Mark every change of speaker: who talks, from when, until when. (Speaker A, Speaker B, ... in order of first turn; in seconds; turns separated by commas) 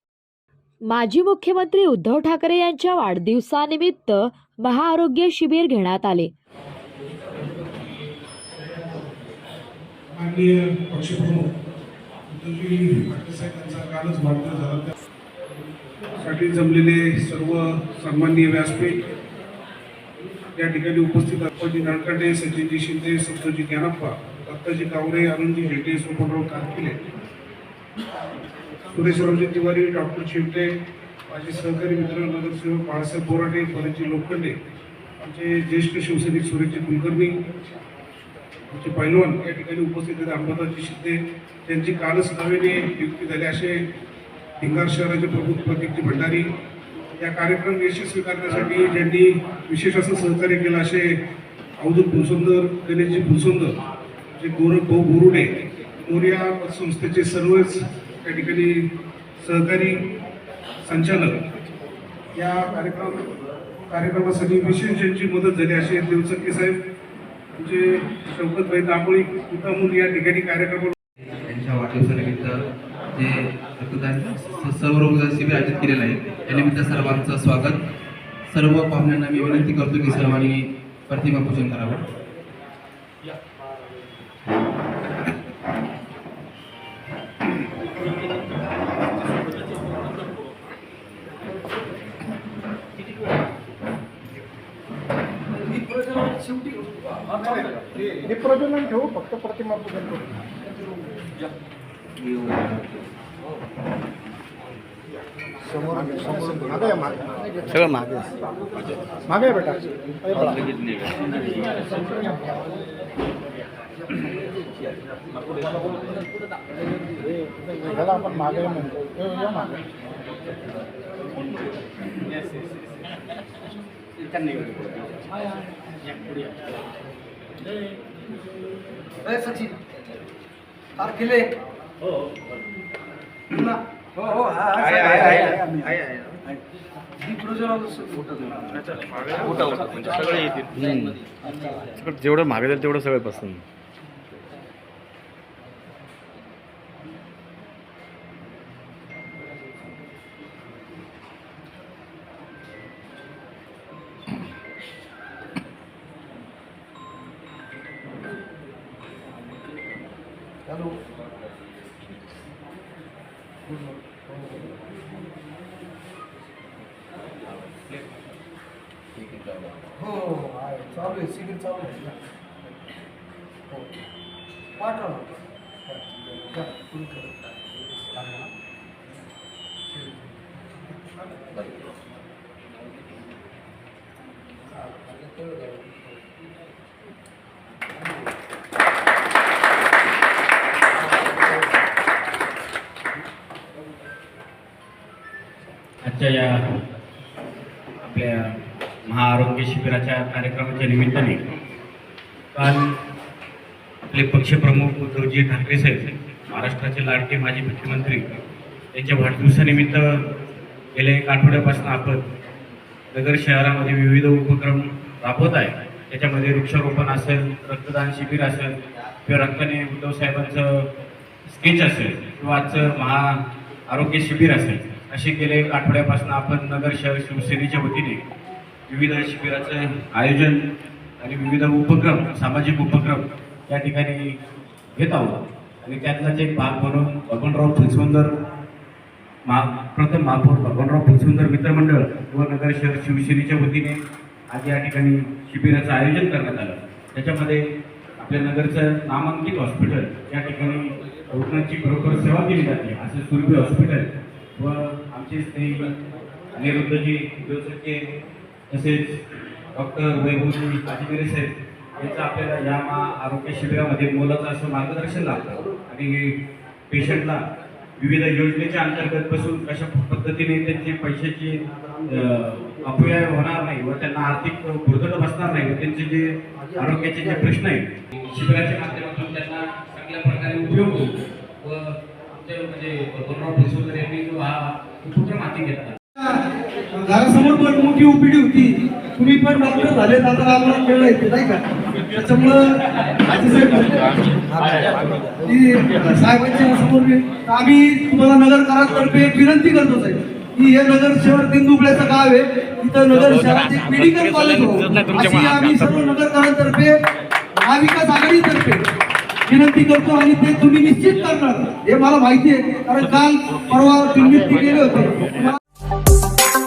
Speaker A: 0.8-6.3, Speaker B: 10.2-11.4, Speaker B: 12.3-14.9, Speaker B: 16.2-19.0, Speaker B: 20.6-26.9, Speaker B: 28.9-30.7, Speaker B: 31.3-34.5, Speaker B: 35.2-37.4, Speaker B: 38.7-43.7, Speaker B: 44.6-46.5, Speaker B: 47.2-51.1, Speaker B: 51.8-53.7, Speaker B: 54.4-55.5, Speaker B: 56.0-58.7, Speaker B: 59.4-59.9, Speaker B: 60.9-61.3, Speaker B: 62.3-63.2, Speaker B: 63.9-66.8, Speaker B: 67.6-70.9, Speaker C: 71.5-72.6, Speaker C: 73.1-77.8, Speaker C: 78.5-82.0, Speaker D: 95.7-97.8, Speaker E: 98.2-100.4, Speaker F: 102.2-102.8, Speaker E: 105.7-107.2, Speaker F: 107.7-108.3, Speaker E: 109.3-110.6, Speaker F: 110.4-111.6, Speaker F: 115.4-115.7, Speaker E: 117.4-119.8, Speaker F: 124.6-125.0, Speaker D: 129.2-129.7, Speaker D: 131.0-131.5, Speaker D: 133.5-136.0, Speaker F: 134.8-136.0, Speaker D: 137.2-140.4, Speaker F: 139.4-141.2, Speaker F: 141.9-143.6, Speaker D: 160.7-160.9, Speaker D: 163.7-164.6, Speaker D: 170.0-172.1, Speaker D: 174.8-175.3, Speaker D: 175.9-177.3, Speaker D: 178.1-178.5, Speaker D: 185.0-185.8, Speaker G: 196.0-196.6, Speaker G: 198.0-198.5, Speaker G: 199.1-201.4, Speaker G: 202.5-202.9, Speaker G: 204.1-208.4, Speaker G: 208.9-210.2, Speaker G: 210.9-212.2, Speaker G: 213.1-218.7, Speaker G: 219.2-220.8, Speaker G: 221.5-223.3, Speaker G: 223.9-228.2, Speaker G: 228.9-230.6, Speaker G: 231.2-234.3, Speaker G: 235.0-238.3, Speaker G: 239.5-244.0, Speaker G: 244.5-247.6, Speaker G: 248.2-255.9, Speaker G: 256.5-258.0, Speaker G: 258.7-259.2, Speaker G: 259.7-266.3, Speaker G: 266.9-267.4, Speaker G: 268.0-281.1, Speaker G: 281.6-286.0, Speaker D: 287.0-307.0, Speaker D: 307.6-308.9, Speaker D: 309.5-315.6